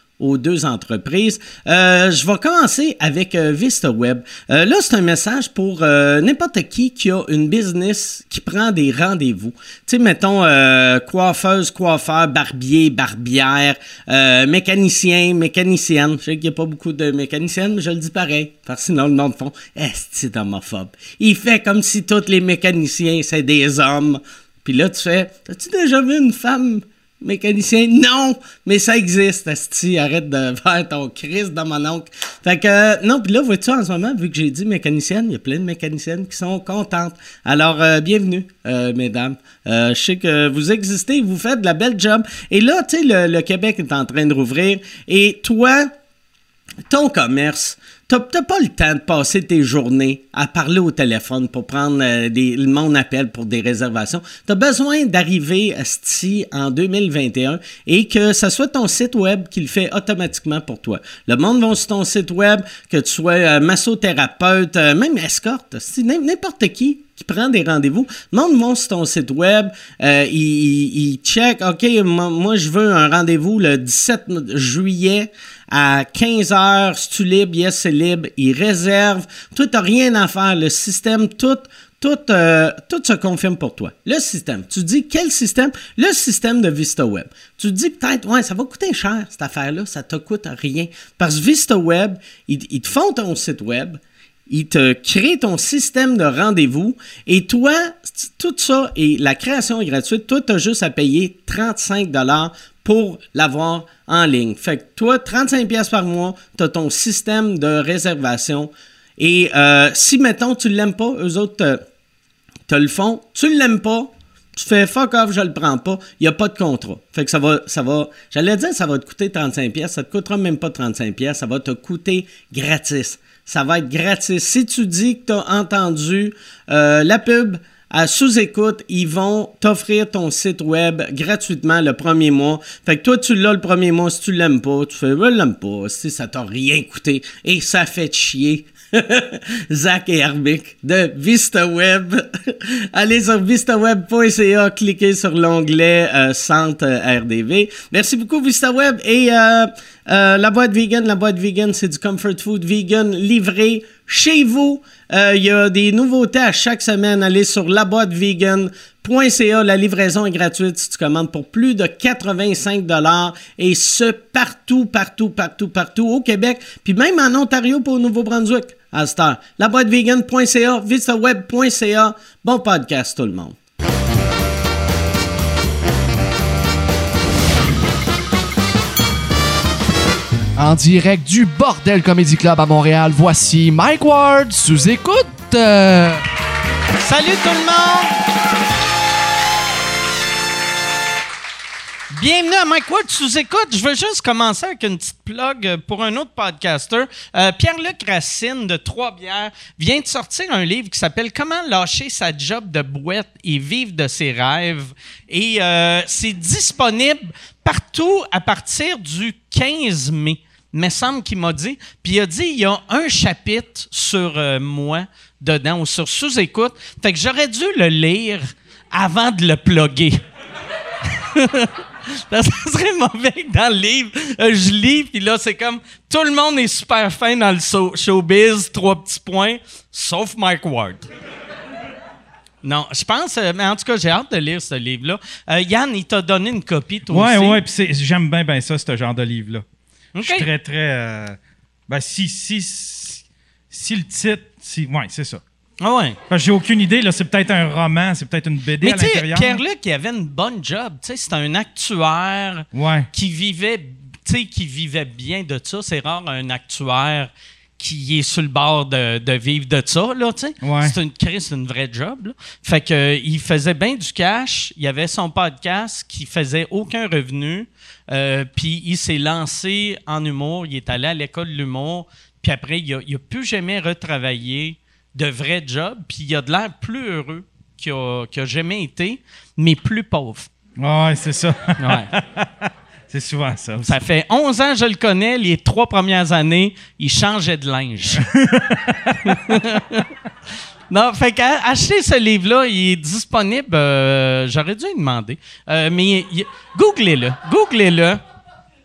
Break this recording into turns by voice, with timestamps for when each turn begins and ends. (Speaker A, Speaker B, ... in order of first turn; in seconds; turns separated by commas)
Speaker A: 0.2-45.9, Speaker A: 46.9-111.8, Speaker A: 112.7-173.6, Speaker B: 180.6-186.2, Speaker C: 187.0-188.2, Speaker C: 192.1-220.2, Speaker C: 221.1-231.1, Speaker C: 232.6-237.6, Speaker D: 237.1-239.6, Speaker C: 240.1-240.5, Speaker D: 240.2-245.4, Speaker C: 245.8-246.2, Speaker D: 246.3-249.6, Speaker C: 248.8-280.5, Speaker D: 252.7-253.1, Speaker D: 260.6-260.9, Speaker D: 280.8-283.9, Speaker C: 281.8-282.1, Speaker C: 283.8-288.2, Speaker D: 288.1-289.6, Speaker C: 289.2-290.1, Speaker C: 290.9-298.2